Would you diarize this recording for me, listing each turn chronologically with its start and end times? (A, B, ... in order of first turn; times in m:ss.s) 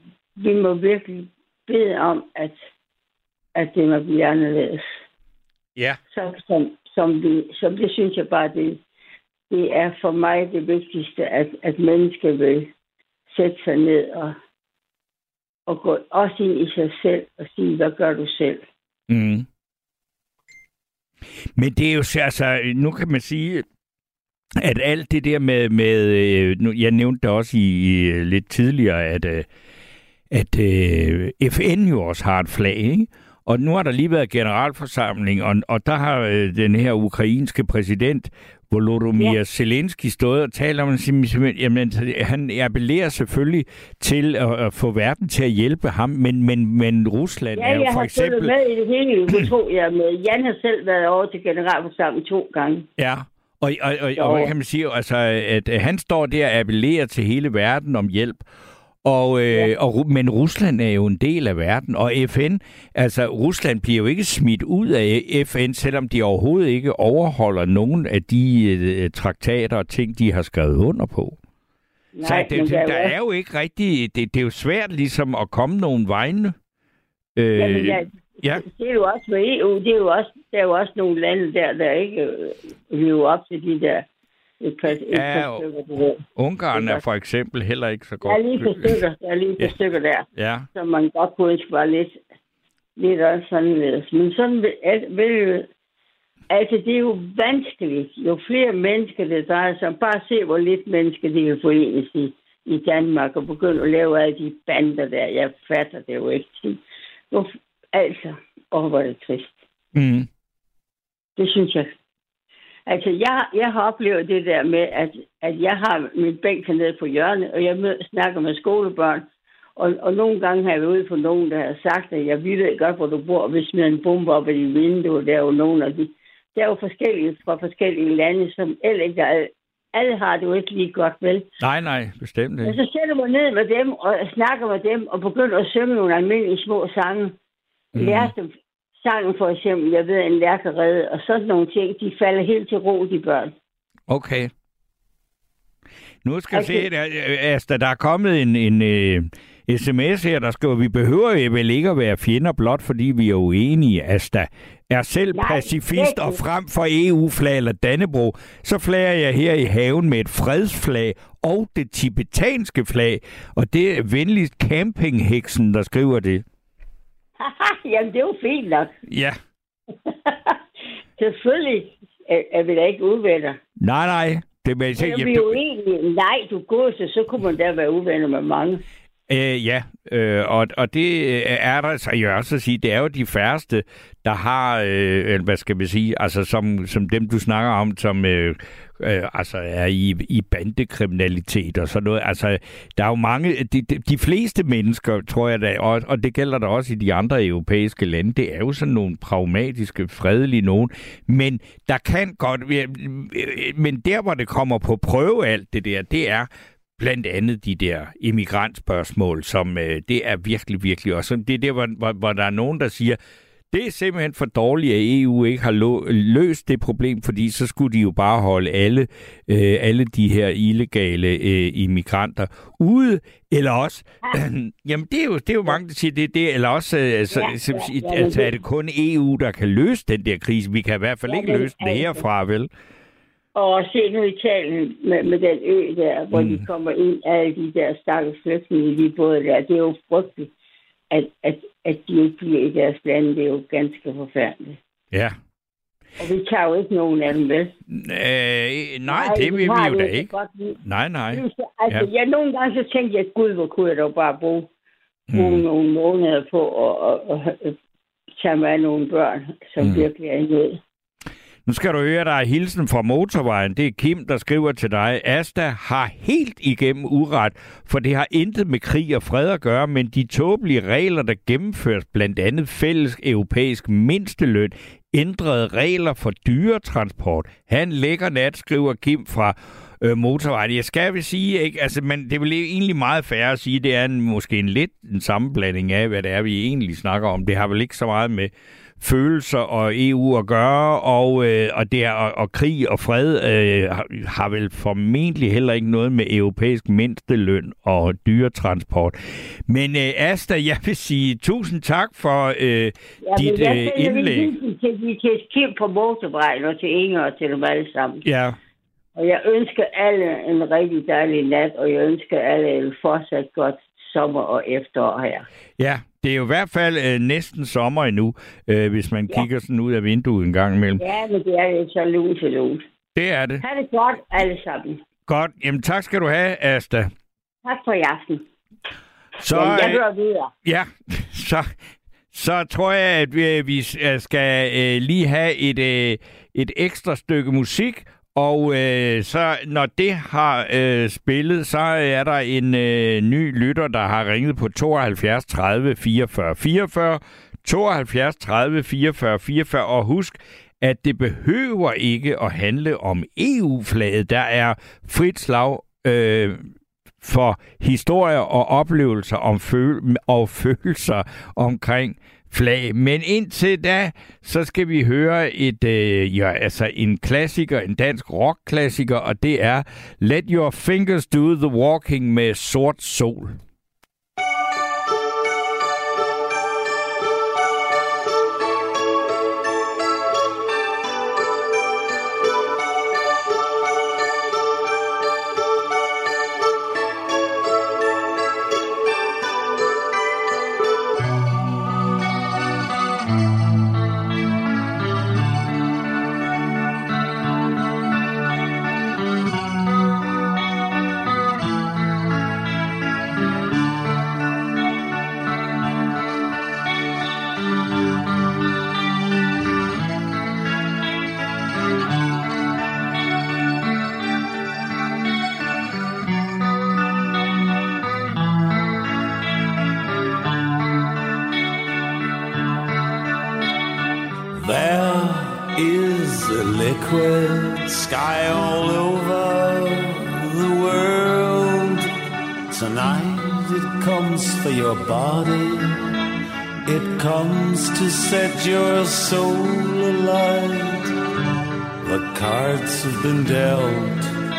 0:00.4-0:02.6 A
0:03.5-0:04.9 A
0:06.1-0:08.8 A
0:09.5-0:12.7 A
0:13.3-0:14.4 A
0:15.7-0:18.6 A
0:19.1-0:19.4 B
0:21.6-0:23.6 B
0:24.6-0:29.4 B
0:30.3-0:48.5 B
0:47.6-0:52.8 A
0:53.0-0:58.4 B
0:54.2-0:54.5 A
0:59.0-1:11.4 B
1:12.2-1:13.1 A
1:12.2-1:16.5 B
1:17.4-1:18.6 B
1:17.5-1:24.0 A
1:24.6-1:27.0 A
1:24.9-1:25.6 B
1:26.4-1:29.0 B
1:28.2-1:32.2 A
1:30.4-1:30.7 B
1:33.0-1:35.7 A
1:36.5-1:49.6 A
1:49.9-1:50.3 B
1:51.4-1:51.9 A
1:52.9-2:11.5 A
2:11.6-2:12.8 B
2:12.6-2:17.4 A
2:17.9-2:18.3 B
2:17.9-2:23.5 A
2:24.1-2:24.5 B
2:26.2-2:46.4 B
2:26.5-2:26.9 A
2:35.3-2:36.4 A
2:47.4-2:48.9 A
2:49.0-2:49.4 B
2:50.1-2:50.6 A
2:51.2-2:53.6 A
2:53.8-2:55.6 B
2:55.0-2:58.8 A
2:59.3-3:33.2 B
3:33.7-3:52.7 B
3:47.3-3:48.5 A
3:51.3-3:52.2 A
3:53.5-4:00.5 A
3:56.3-3:56.6 B
4:01.1-4:04.8 A
4:06.2-4:07.7 A
4:07.9-4:10.3 B
4:09.1-4:10.8 A
4:10.8-4:12.1 B
4:11.3-4:14.7 A
4:15.3-4:15.6 B
4:15.3-4:17.8 A
4:18.4-4:20.8 A
4:19.8-4:20.1 B
4:21.6-5:04.5 B
5:03.2-5:08.2 A
5:08.2-5:08.6 B
5:09.2-5:15.5 A
5:15.8-5:21.0 B
5:21.0-5:22.8 A
5:23.1-5:23.6 B
5:23.6-5:25.0 A
5:25.3-5:27.1 B
5:27.6-5:28.4 A
5:29.4-5:30.0 B
5:29.5-5:30.5 A
5:30.6-5:31.7 B
5:32.3-5:56.7 B
5:57.2-6:13.6 B
7:04.5-7:12.1 C
7:12.7-7:16.1 C
7:16.8-7:21.1 C
7:22.0-7:24.3 C